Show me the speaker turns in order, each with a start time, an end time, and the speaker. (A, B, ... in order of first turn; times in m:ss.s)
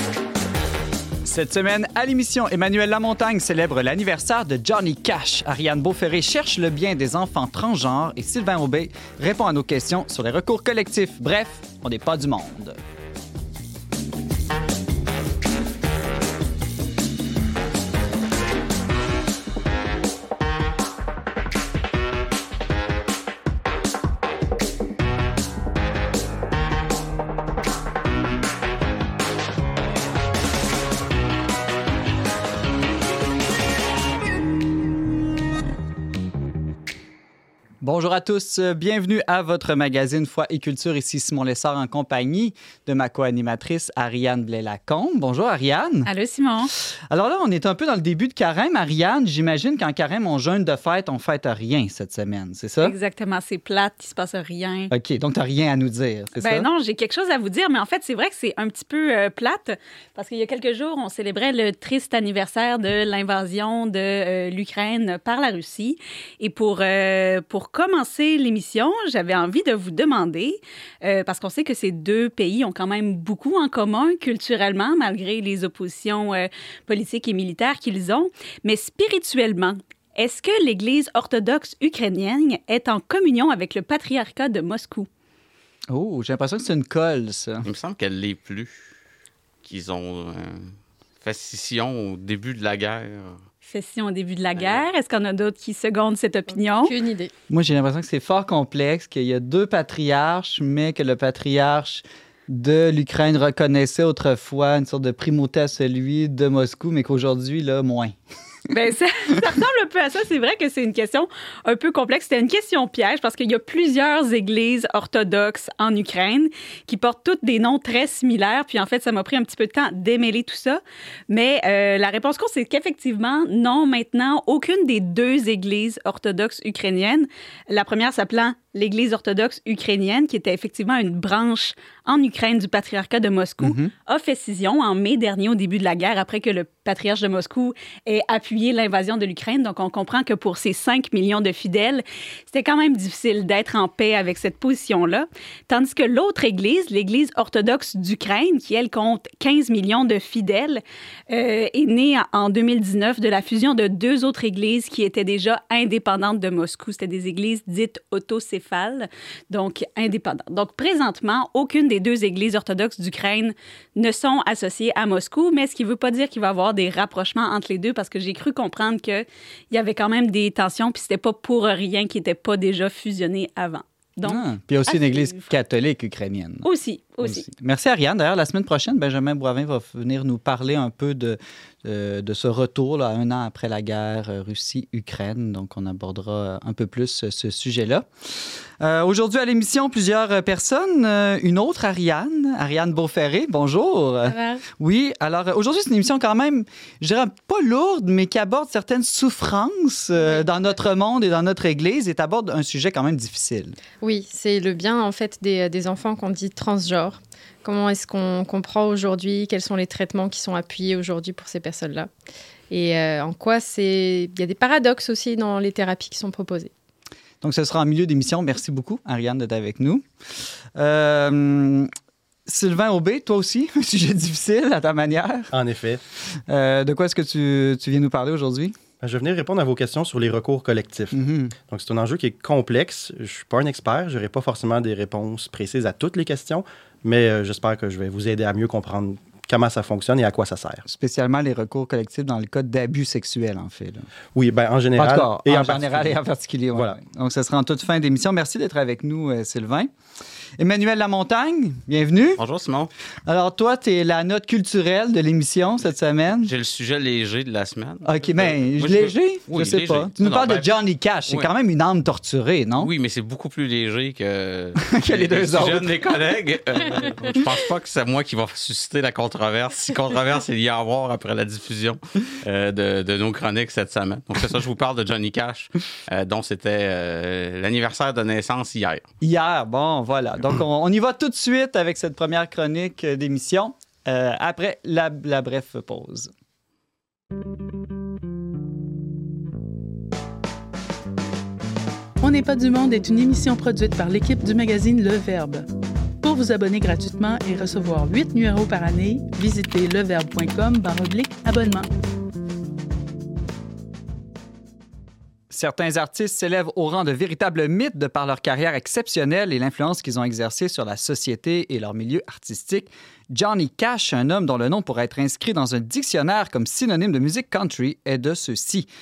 0:01.2-0:12.8 A
0:37.8-0:46.1 A
0:46.0-0:46.7 B
0:47.1-0:52.9 A
0:52.8-0:54.9 B
0:54.9-0:56.7 A
0:56.4-1:25.1 B
1:25.9-1:27.6 A
1:27.6-1:28.9 C
1:29.6-1:33.4 C
1:33.6-1:36.9 B
1:34.6-1:34.8 C
1:36.5-1:37.3 D
1:37.5-1:48.2 A
1:48.7-2:55.5 B
2:13.6-2:13.9 A
2:54.2-2:56.7 A
2:56.6-2:57.5 B
2:57.2-3:23.8 A
3:14.3-3:14.6 D
3:20.2-3:20.4 D
3:24.0-3:32.1 D
3:32.7-3:36.7 D
3:37.4-3:41.9 A
3:42.4-3:45.5 A
3:45.5-3:46.0 E
3:46.3-3:48.8 A
3:49.0-3:51.2 E
3:51.1-3:51.5 A
3:51.7-4:00.8 E
4:00.8-4:04.1 A
4:04.3-4:06.2 E
4:05.0-4:09.9 A
4:10.6-4:12.4 A
4:12.4-4:12.9 C
4:13.2-4:16.5 A
4:16.4-4:20.7 C
4:18.0-4:22.9 A
4:22.8-4:39.0 C
4:24.8-4:25.9 A
4:39.2-4:46.3 A
4:52.2-4:55.7 F
4:56.2-5:01.9 F
5:05.5-5:18.9 A